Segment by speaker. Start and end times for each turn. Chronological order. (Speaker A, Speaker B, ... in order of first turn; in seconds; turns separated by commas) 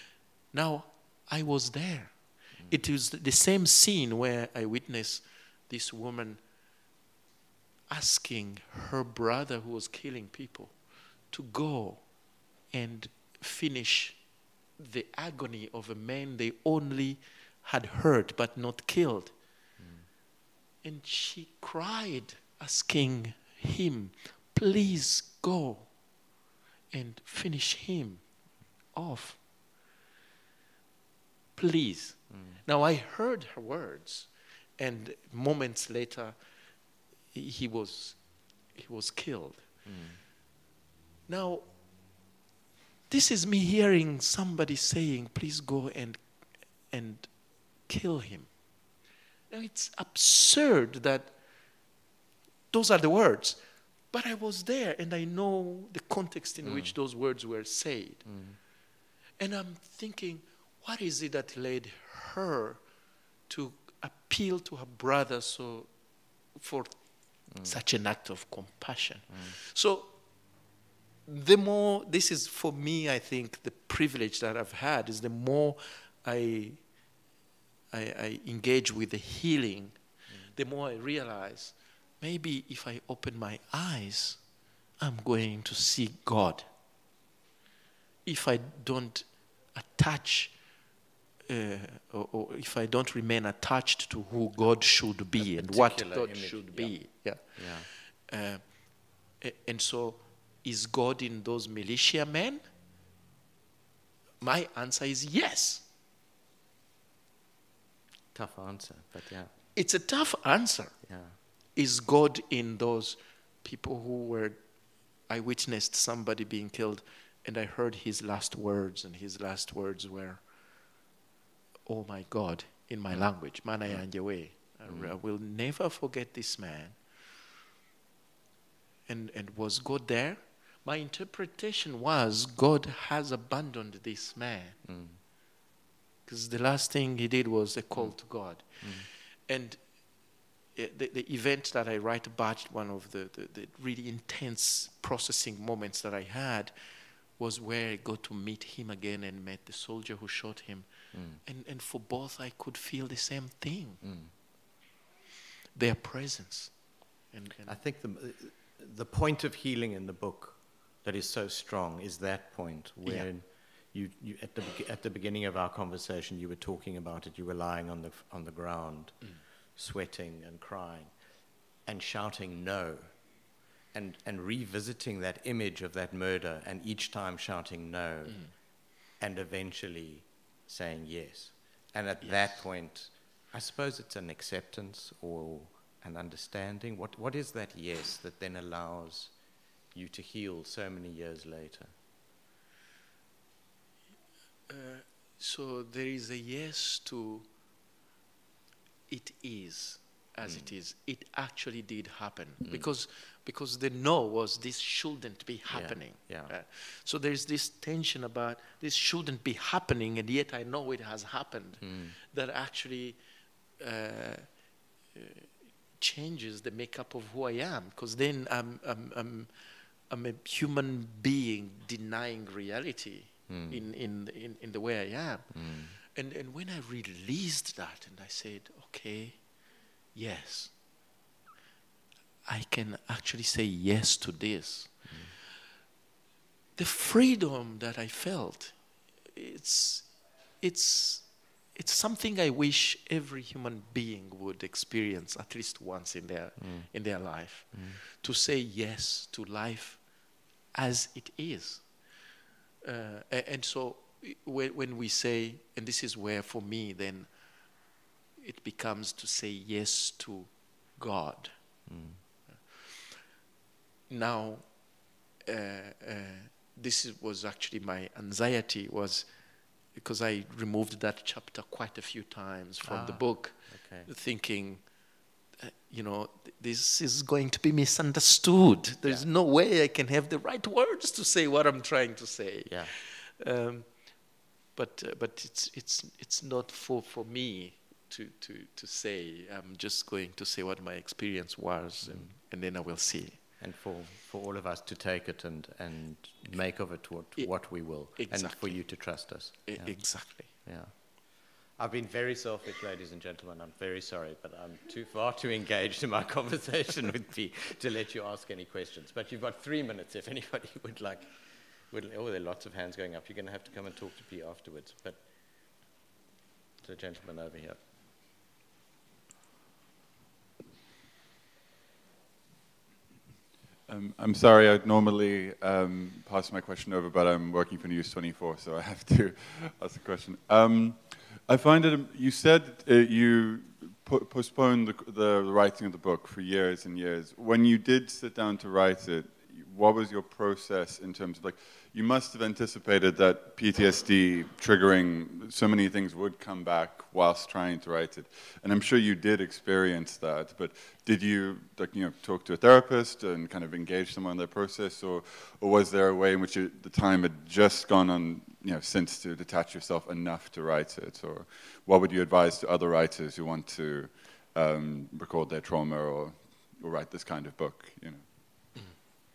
Speaker A: 0.5-6.4, Speaker A: 7.9-10.8, Speaker A: 11.3-12.0, Speaker A: 12.7-14.2, Speaker A: 14.8-19.3, Speaker B: 19.8-20.1, Speaker A: 20.8-25.9, Speaker A: 26.9-28.2, Speaker A: 28.9-29.4, Speaker A: 31.6-36.4, Speaker B: 32.3-32.6, Speaker A: 37.3-38.2, Speaker A: 38.7-39.7, Speaker B: 39.8-40.2, Speaker A: 41.3-41.7, Speaker A: 43.1-46.2, Speaker A: 46.9-47.3, Speaker A: 47.9-48.5, Speaker A: 49.5-51.4, Speaker A: 52.7-58.3, Speaker B: 56.6-56.9, Speaker B: 58.2-58.6, Speaker A: 59.4-62.8, Speaker A: 63.5-65.9, Speaker A: 66.5-70.1, Speaker A: 71.3-76.8, Speaker A: 77.9-84.4, Speaker A: 85.0-86.6, Speaker A: 88.2-90.5, Speaker A: 91.5-102.6, Speaker B: 95.4-97.9, Speaker A: 104.4-105.8, Speaker B: 108.3-109.5, Speaker A: 109.7-111.0, Speaker B: 111.0-111.4, Speaker A: 111.7-114.6, Speaker A: 115.3-120.4, Speaker A: 121.9-127.0, Speaker B: 124.9-125.1, Speaker A: 129.1-134.8, Speaker B: 134.8-135.2, Speaker A: 136.2-139.8, Speaker B: 138.8-139.1, Speaker A: 140.7-146.7, Speaker A: 147.4-154.0, Speaker B: 151.1-151.4, Speaker B: 154.0-154.3, Speaker A: 155.7-156.8, Speaker A: 157.3-157.8, Speaker B: 157.7-171.1, Speaker B: 171.9-173.1, Speaker B: 173.9-178.5, Speaker B: 179.2-189.3, Speaker A: 182.2-182.6, Speaker B: 189.9-191.9, Speaker A: 194.7-197.5, Speaker A: 199.1-213.2, Speaker B: 200.4-200.7, Speaker B: 202.6-202.9, Speaker B: 205.7-206.5, Speaker B: 211.8-212.2, Speaker A: 213.8-214.5, Speaker A: 215.1-219.5, Speaker A: 220.1-229.4, Speaker B: 223.5-223.8, Speaker B: 225.5-225.9, Speaker A: 230.1-230.7, Speaker A: 232.4-235.1, Speaker B: 235.1-235.3, Speaker A: 236.8-251.9, Speaker B: 246.6-246.9, Speaker B: 247.7-248.0, Speaker A: 252.8-257.3, Speaker A: 258.4-261.5, Speaker B: 261.9-262.2, Speaker A: 262.7-262.9, Speaker A: 264.1-264.7, Speaker A: 265.4-269.3, Speaker A: 269.9-274.9, Speaker B: 272.8-274.1, Speaker A: 275.6-284.2, Speaker B: 282.6-282.9, Speaker A: 284.7-293.4, Speaker B: 292.1-292.3, Speaker B: 293.6-301.1, Speaker A: 297.4-299.1, Speaker A: 299.7-300.5, Speaker B: 301.8-315.2, Speaker B: 316.8-317.8, Speaker C: 323.9-368.2